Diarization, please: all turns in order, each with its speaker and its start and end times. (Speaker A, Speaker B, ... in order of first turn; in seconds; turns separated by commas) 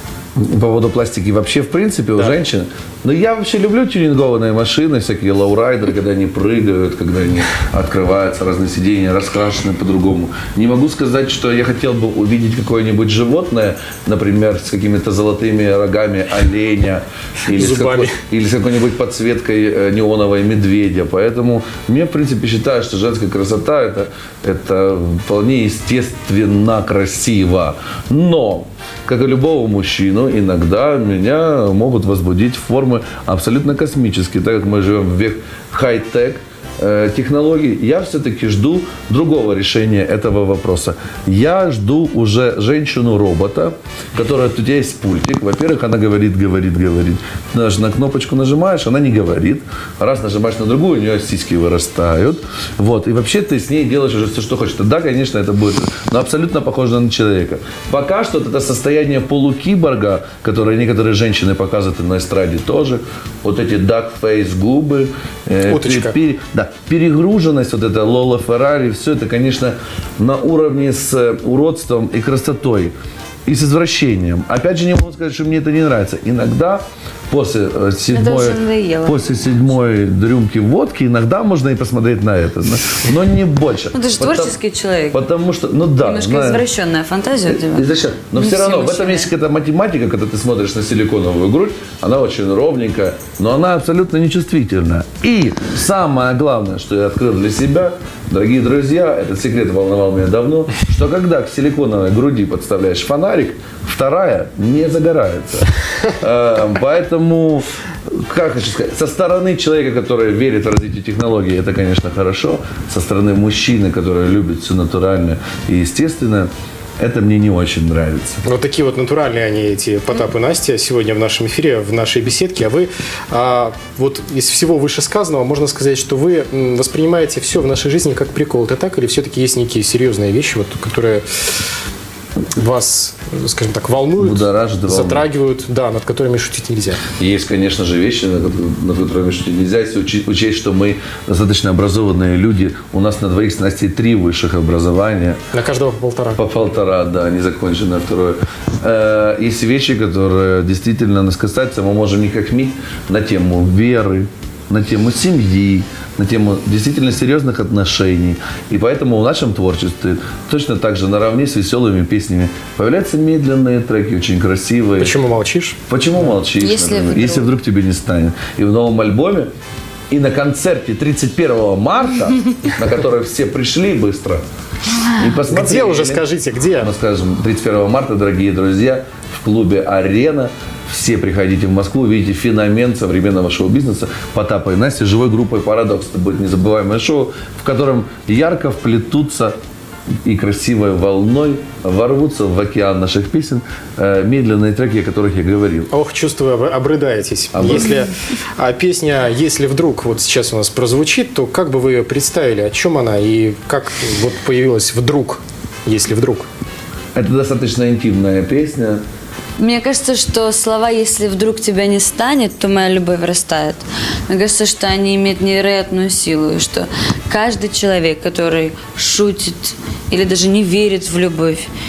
Speaker A: 0.4-72.9, Speaker B: 17.5-18.2, Speaker B: 65.7-66.2, Speaker A: 73.5-84.6, Speaker C: 78.1-79.2, Speaker C: 83.9-85.2, Speaker A: 85.1-86.7, Speaker C: 86.0-89.3, Speaker A: 87.5-118.4, Speaker B: 118.5-131.2, Speaker B: 132.5-137.0, Speaker A: 134.2-135.3, Speaker A: 137.2-145.4, Speaker B: 145.5-146.4, Speaker A: 146.4-165.1, Speaker B: 165.0-165.8, Speaker A: 165.9-169.5, Speaker C: 166.6-167.5, Speaker A: 170.1-174.4, Speaker A: 175.1-176.2, Speaker B: 175.5-176.9, Speaker A: 176.8-189.6, Speaker A: 190.2-195.9, Speaker B: 195.9-206.5, Speaker A: 197.5-198.0, Speaker A: 207.2-209.0, Speaker C: 209.6-221.7